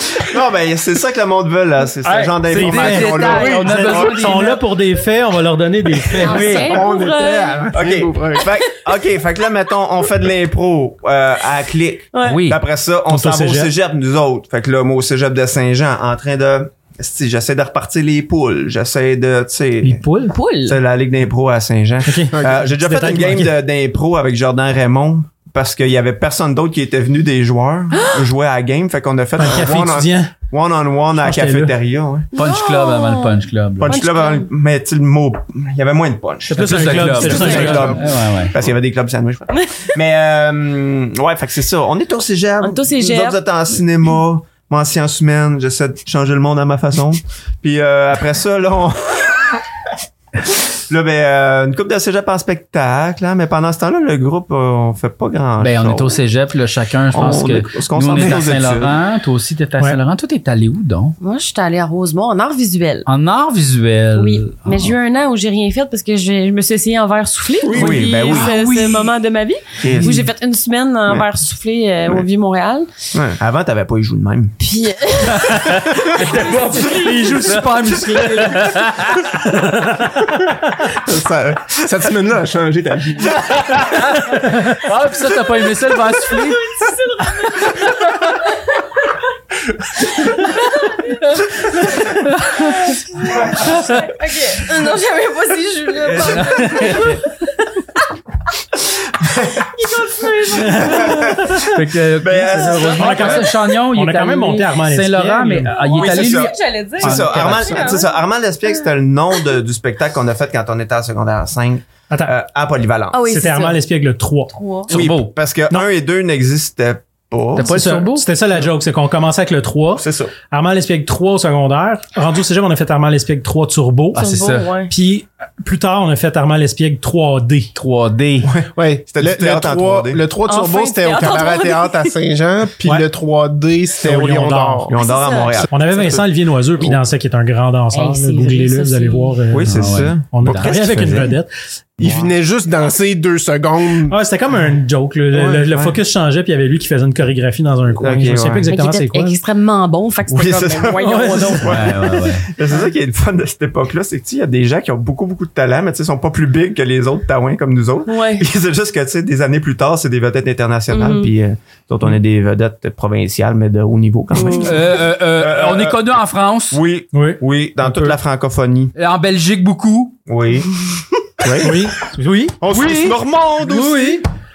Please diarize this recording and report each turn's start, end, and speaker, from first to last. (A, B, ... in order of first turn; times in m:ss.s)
0:00.2-0:04.4 A
0:02.0-0:04.6 B
0:02.5-0:06.5 C
0:06.0-0:06.8 B
0:06.2-0:07.7 D
0:06.4-0:08.5 E
0:07.7-0:20.0 A
0:12.1-0:12.4 D
0:12.2-0:12.6 B
0:13.1-0:13.7 C
0:19.8-0:20.3 C
0:20.3-0:20.8 D
0:20.6-0:32.3 A
0:22.0-0:23.6 C
0:22.3-0:22.7 E
0:27.9-0:28.2 D
0:29.4-0:30.3 C
0:31.2-0:31.7 C
0:32.3-0:34.0 B
0:32.3-0:34.5 D
0:33.8-0:49.6 A
0:36.5-0:38.0 C
0:36.6-0:38.5 B
0:37.2-0:37.7 D
0:37.6-0:38.0 E
0:39.5-0:39.9 D
0:42.6-0:43.4 D
0:50.4-0:56.2 A
0:55.6-1:01.2 B
0:57.1-0:59.0 A
1:01.2-1:03.1 D
1:03.0-1:04.9 B
1:04.2-1:12.9 D
1:07.6-1:08.5 A
1:07.6-1:09.2 B
1:09.8-1:10.2 A
1:13.1-1:14.6 A
1:14.6-1:17.5 D
1:15.3-1:19.4 B
1:16.9-1:18.8 C
1:19.4-1:20.9 C
1:20.9-1:23.4 E
1:23.3-1:26.8 B
1:24.3-1:24.8 C
1:26.3-1:28.8 D
1:27.6-1:27.9 B
1:30.0-1:37.5 D
1:36.1-1:37.2 B
1:39.2-1:39.6 A
1:39.6-1:41.4 D
1:40.6-1:41.7 C
1:40.7-1:43.5 A
1:41.6-1:48.0 B
1:42.9-1:45.7 C
1:45.7-1:48.1 D
1:45.9-1:53.2 A
1:52.1-1:52.3 C
1:53.1-1:53.8 D
1:53.3-1:54.5 C
1:54.5-1:54.9 D
1:54.9-1:55.3 B
1:54.9-1:57.7 A
1:57.5-1:58.2 B
1:57.6-2:04.2 C
2:00.0-2:00.3 A
2:04.1-2:04.7 B
2:04.1-2:04.9 D
2:04.9-2:07.7 C
2:07.7-2:08.5 B
2:08.4-2:10.2 A
2:08.7-2:15.0 E
2:10.4-2:12.1 D
2:14.0-2:14.9 C
2:14.9-2:16.2 A
2:15.0-2:15.7 D
2:15.7-2:21.5 C
2:17.9-2:19.4 D
2:19.5-2:21.4 A
2:19.6-2:20.7 B
2:22.0-2:24.2 E
2:22.0-2:22.3 A
2:24.1-2:29.4 C
2:25.4-2:25.9 A
2:28.0-2:28.7 A
2:28.7-2:32.2 D
2:30.3-2:46.0 A
2:31.0-2:31.8 C
2:31.6-2:32.5 B
2:38.1-2:38.4 D
2:40.9-2:41.3 D
2:44.3-2:44.8 D
2:44.6-2:46.8 B
2:46.7-2:48.9 A
2:47.1-2:48.2 C
2:48.9-2:50.2 B
2:50.3-2:50.7 A
2:51.4-2:51.8 A
2:51.6-2:52.6 C
2:52.6-2:54.2 A
2:52.7-2:53.2 B
2:53.6-2:54.2 C